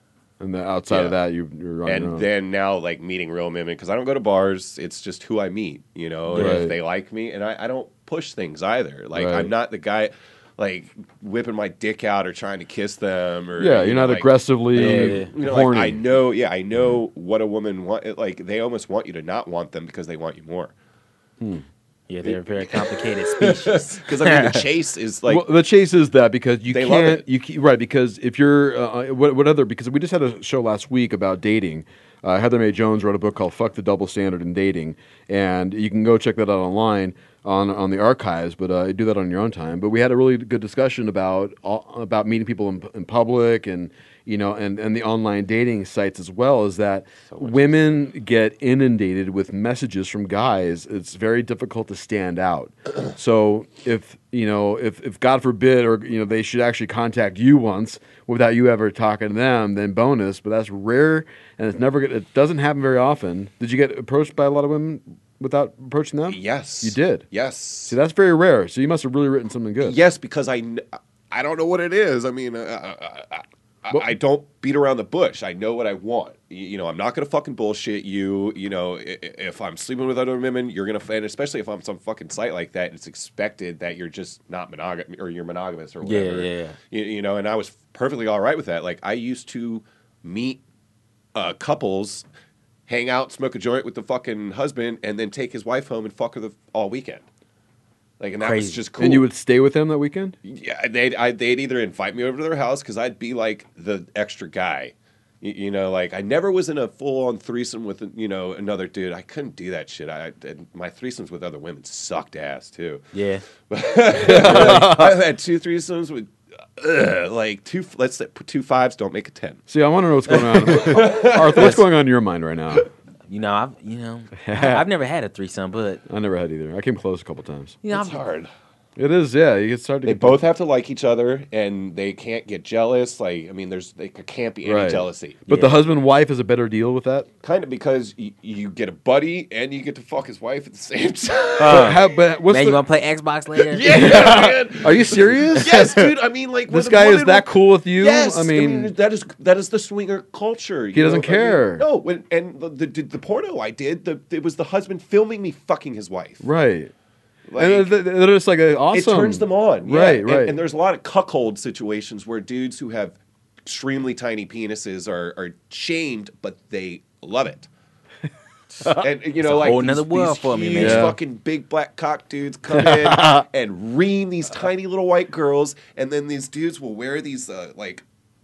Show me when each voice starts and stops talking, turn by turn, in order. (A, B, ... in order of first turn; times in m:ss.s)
0:00.4-0:02.3 A
0:00.9-0:01.2 B
0:01.8-0:20.7 B
0:06.3-0:06.6 C
0:06.3-0:06.7 A
0:09.1-0:09.5 A
0:13.6-0:16.0 A
0:14.7-0:15.3 C
0:22.1-0:24.6 C
0:22.2-0:25.5 B
0:25.3-1:07.3 A
0:26.7-0:27.2 B
0:47.3-0:47.6 B
1:06.3-1:08.0 B
1:07.9-1:10.0 A
1:09.8-1:30.6 B
1:26.0-1:26.8 C
1:31.3-1:32.3 B
1:32.9-1:37.2 B
1:38.2-1:39.3 B
1:38.4-1:38.8 C
1:39.0-1:40.3 A
1:40.4-1:53.1 B
1:53.1-1:53.4 C
1:53.7-1:59.6 B
1:54.2-1:55.1 A
1:54.4-1:54.9 C
1:59.7-2:02.9 A
2:00.3-2:01.8 B
2:01.6-2:01.8 C
2:03.3-2:06.0 C
2:04.4-2:04.8 A
2:06.1-2:07.8 A
2:07.8-2:08.2 C
2:07.9-2:08.5 B
2:09.0-2:10.4 A
2:10.0-2:15.5 B
2:14.6-2:17.3 A
2:15.5-2:15.8 C
2:17.4-2:22.0 B
2:21.6-2:22.8 A
2:21.6-2:24.2 C
2:23.6-2:36.4 B
2:23.8-2:25.7 A
2:25.6-2:26.1 C
2:26.7-2:28.9 A
2:30.9-2:31.8 A
2:36.4-2:36.9 A
2:37.5-2:37.9 B
2:37.6-2:40.6 A
2:38.9-2:47.7 B
2:48.8-2:51.1 C
2:49.0-2:58.0 B
2:50.8-2:51.1 A
2:52.8-2:53.4 A